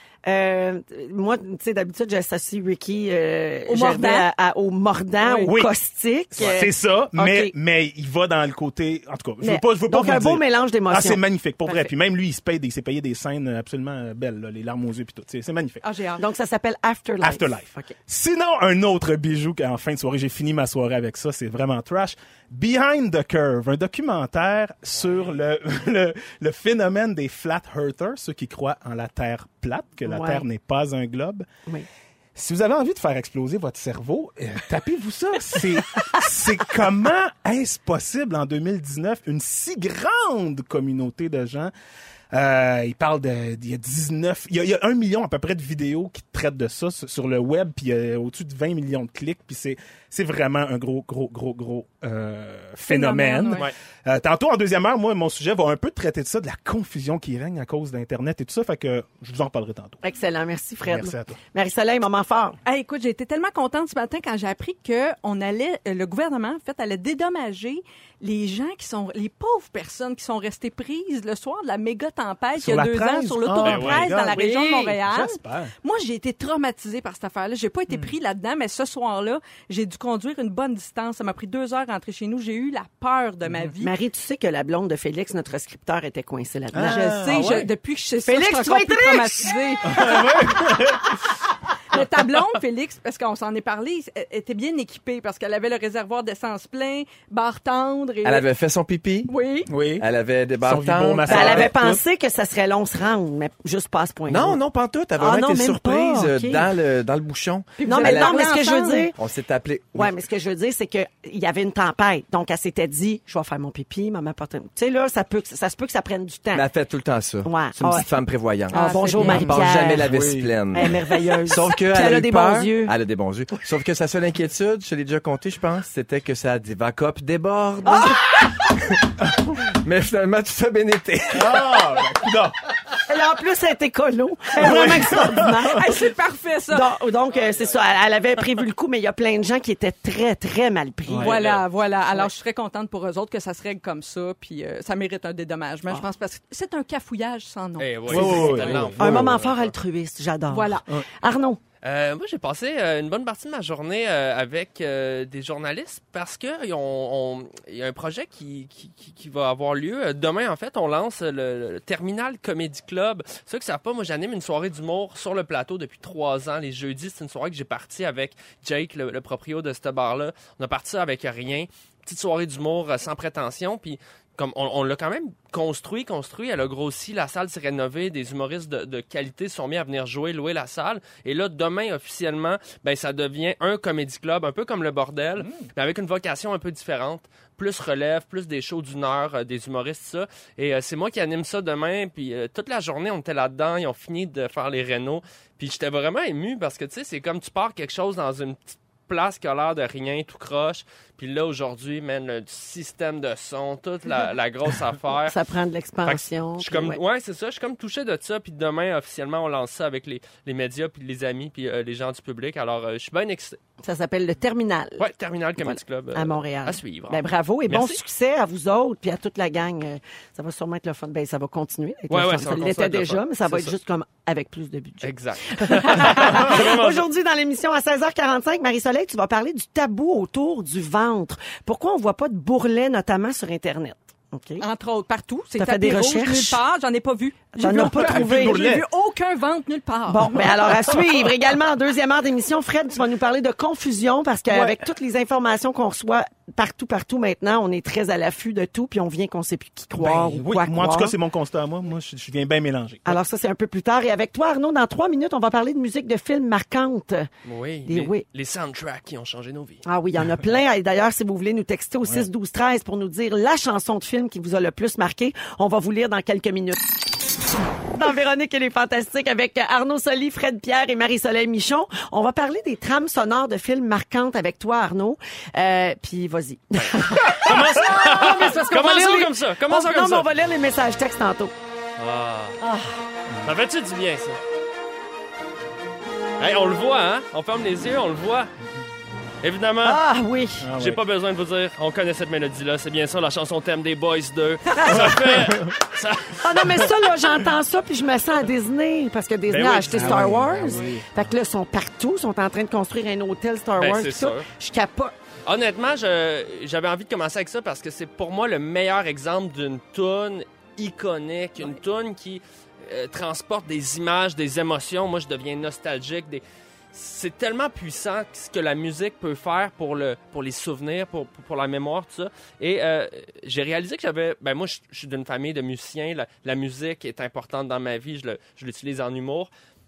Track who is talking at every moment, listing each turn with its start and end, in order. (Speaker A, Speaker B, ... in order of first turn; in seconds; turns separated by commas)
Speaker A: 0.2-7.5, Speaker B: 3.7-4.3, Speaker B: 5.2-5.5, Speaker C: 5.4-5.7, Speaker C: 6.3-15.8, Speaker A: 9.4-11.9, Speaker B: 15.8-16.2, Speaker A: 16.2-17.9, Speaker C: 17.2-31.4, Speaker A: 30.1-30.4, Speaker C: 32.3-41.7, Speaker C: 42.3-60.0, Speaker B: 52.9-53.6, Speaker A: 60.0-62.6, Speaker C: 60.9-61.4, Speaker B: 62.6-83.9, Speaker C: 72.5-75.7, Speaker D: 73.6-74.1, Speaker A: 74.3-74.9, Speaker C: 83.5-83.7, Speaker A: 83.8-87.2, Speaker C: 86.7-87.6, Speaker B: 86.8-90.2, Speaker A: 88.2-90.0, Speaker C: 89.9-91.2, Speaker B: 91.9-98.4, Speaker E: 98.2-99.3, Speaker B: 99.3-99.7, Speaker C: 99.7-100.0, Speaker E: 100.0-101.8, Speaker C: 100.6-102.0, Speaker A: 101.2-104.6, Speaker E: 104.3-108.6, Speaker A: 105.2-106.7, Speaker B: 107.8-109.1, Speaker A: 107.8-109.2, Speaker E: 109.2-110.1, Speaker A: 109.9-116.7, Speaker E: 116.5-128.2, Speaker A: 117.4-118.1, Speaker A: 118.7-120.1, Speaker B: 118.7-119.5, Speaker C: 119.2-120.5, Speaker A: 120.7-122.9, Speaker A: 127.9-128.2, Speaker E: 129.5-131.7, Speaker C: 131.3-132.6, Speaker A: 133.1-135.9, Speaker C: 134.6-135.8, Speaker B: 135.7-136.9, Speaker A: 136.7-141.4, Speaker D: 137.3-137.8, Speaker C: 141.1-141.3, Speaker B: 141.2-148.8, Speaker D: 141.2-141.6, Speaker D: 147.8-149.7, Speaker C: 148.1-149.3, Speaker A: 148.2-151.6, Speaker B: 150.5-150.8, Speaker D: 151.8-205.3, Speaker C: 185.4-185.7, Speaker A: 205.2-207.0, Speaker D: 206.1-213.6, Speaker A: 213.8-215.1, Speaker D: 215.0-218.0, Speaker A: 215.6-234.6, Speaker D: 222.1-223.8, Speaker D: 225.0-227.1, Speaker B: 234.6-240.4, Speaker A: 235.6-236.6, Speaker A: 237.5-238.7, Speaker C: 237.6-238.8, Speaker A: 240.1-251.1, Speaker C: 250.0-253.2, Speaker A: 253.1-257.3, Speaker D: 257.4-259.8, Speaker A: 257.9-258.2, Speaker A: 259.8-267.0, Speaker A: 267.9-281.5, Speaker D: 277.2-280.3, Speaker D: 282.0-282.6, Speaker A: 282.6-283.0, Speaker D: 283.4-284.4, Speaker D: 286.4-288.5, Speaker D: 289.4-290.0, Speaker A: 289.8-290.7, Speaker C: 290.6-291.0, Speaker D: 290.8-296.9, Speaker C: 294.9-295.8, Speaker A: 296.4-305.1, Speaker C: 299.5-301.1, Speaker D: 299.5-300.5, Speaker D: 303.8-304.5, Speaker D: 305.4-329.5